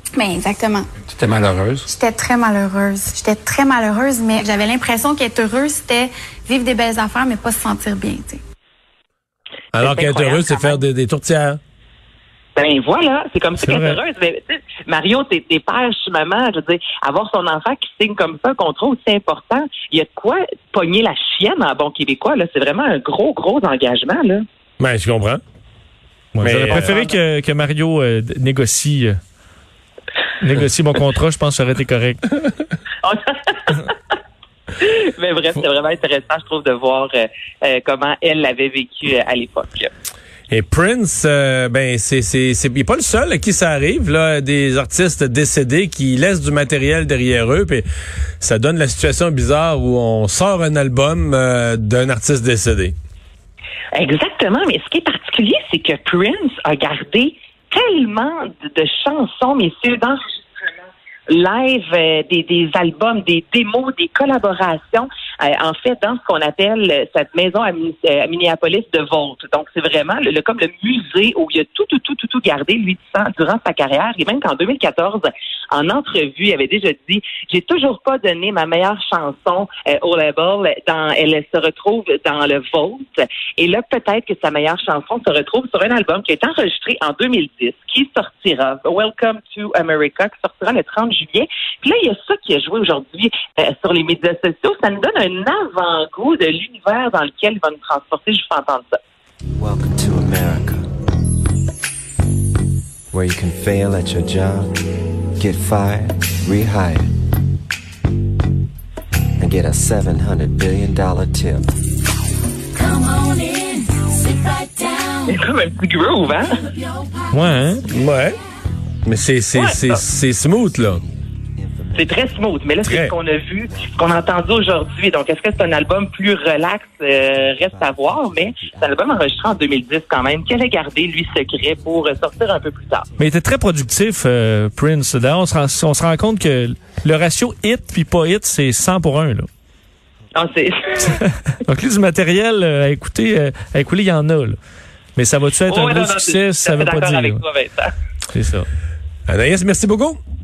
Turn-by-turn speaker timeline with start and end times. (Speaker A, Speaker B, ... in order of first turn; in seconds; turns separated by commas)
Speaker A: 0.1-0.9, Speaker A: 1.9-8.4, Speaker B: 9.7-11.6, Speaker C: 9.8-10.8, Speaker C: 12.6-24.4, Speaker D: 13.6-14.0, Speaker B: 24.8-25.4, Speaker D: 26.3-29.2, Speaker B: 26.4-26.9, Speaker C: 26.6-27.2, Speaker D: 30.4-32.2, Speaker C: 33.0-33.9, Speaker C: 34.8-39.9, Speaker B: 40.5-47.8, Speaker B: 48.4-53.0, Speaker C: 53.9-60.7, Speaker C: 61.3-99.0, Speaker E: 99.6-100.9, Speaker E: 103.1-104.8, Speaker E: 105.4-107.1, Speaker E: 109.4-111.7, Speaker C: 115.3-116.5, Speaker D: 117.3-117.8, Speaker B: 117.9-118.4, Speaker B: 119.0-121.0, Speaker C: 119.5-120.0, Speaker E: 120.3-122.7, Speaker C: 122.0-133.1, Speaker B: 122.8-123.1, Speaker E: 123.6-124.6, Speaker E: 127.2-129.8, Speaker D: 133.2-139.5, Speaker C: 140.3-141.2, Speaker D: 141.1-144.6, Speaker D: 145.2-147.4, Speaker C: 145.7-147.9, Speaker D: 148.3-148.7, Speaker B: 149.3-150.2